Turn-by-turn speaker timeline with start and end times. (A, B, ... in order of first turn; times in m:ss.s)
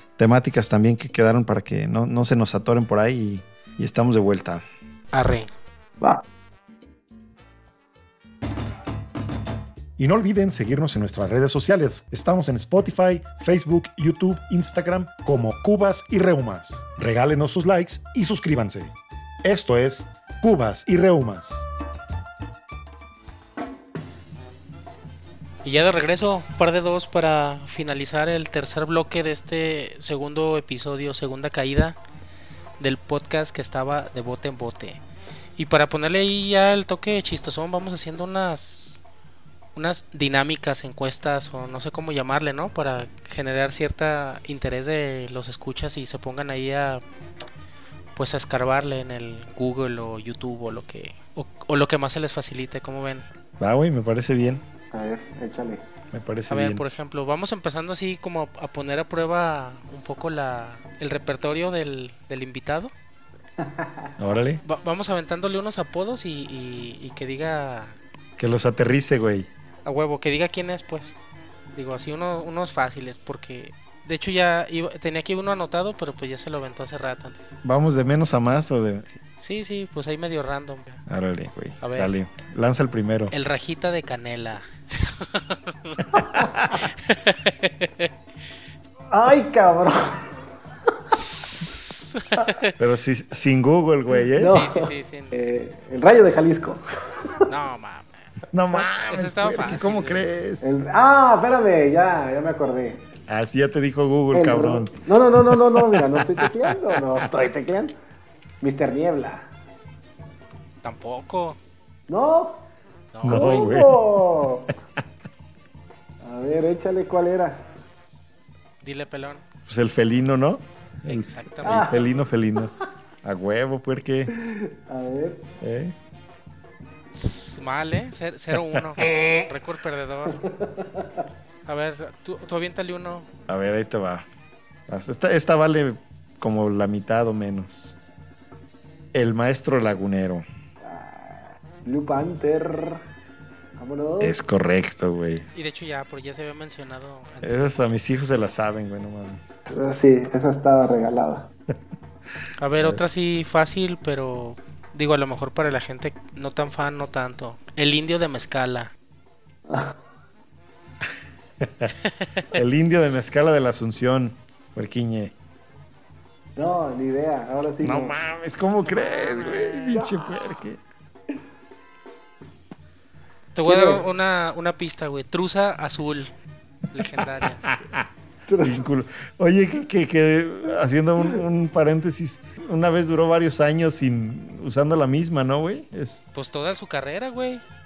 0:00.2-0:04.6 A
0:05.1-0:05.5 B
0:10.0-0:21.6 A
0:25.6-0:32.0 B
0:32.8-0:35.0 B
0:35.6-0:39.0 B
0:39.7-0:47.0 B
0:48.2-0:53.3 B
0:53.6-0:54.6 A
0:54.9-0:55.9 C
0:56.1-0:56.8 A
0:56.5-1:02.9 B
1:03.6-1:04.1 C
1:04.2-1:04.6 A
1:04.6-1:08.0 B
1:08.4-1:09.5 A
1:09.8-1:11.2 B
1:11.7-1:17.4 B
1:17.6-1:19.2 A
1:19.4-1:21.0 B
1:21.1-1:23.3 A
1:21.8-1:22.1 B
1:23.3-1:26.1 B
1:26.2-1:26.7 A
1:26.8-1:28.1 B
1:29.1-1:30.3 C
1:31.1-1:32.7 B
1:32.8-1:34.6 A
1:34.3-1:36.8 C
1:34.5-1:35.3 B
1:37.5-1:38.1 B
1:38.5-1:40.8 A
1:38.7-1:40.2 B
1:40.6-1:43.0 C
1:43.3-1:44.9 A
1:44.3-1:47.9 C
1:45.5-1:47.2 A
1:48.6-1:49.5 C
1:50.8-1:51.6 B
1:52.1-1:52.7 C
1:53.1-1:53.7 B
1:53.2-1:54.0 A
1:53.2-1:54.7 C
1:56.2-1:57.7 C
1:58.8-1:59.4 B
1:59.6-2:02.7 A
2:01.0-2:02.0 B
2:01.6-2:02.1 C
2:03.2-2:04.3 A
2:04.3-2:05.5 C
2:05.6-2:06.0 A
2:07.1-2:10.4 B
2:10.3-2:11.2 C
2:11.6-2:13.3 B
2:13.5-2:14.2 A
2:14.9-2:18.0 A
2:19.1-2:20.4 A
2:20.8-2:23.0 C
2:23.8-2:24.4 C
2:24.2-2:25.5 A
2:25.5-2:27.8 B
2:27.4-2:29.5 A
2:29.7-2:31.5 C
2:32.6-2:38.9 B
2:39.7-2:40.0 C
2:41.6-2:41.9 A
2:42.1-2:42.4 B
2:42.5-2:45.3 A
2:46.6-2:48.2 C
2:47.8-2:50.8 A
2:48.8-2:49.9 B
2:49.9-2:50.5 C
2:53.5-2:56.3 B
2:53.7-2:54.1 C
2:56.9-2:57.6 B
2:57.6-2:58.1 A
2:58.5-2:58.9 C
2:58.6-3:06.3 A
3:06.3-3:07.6 B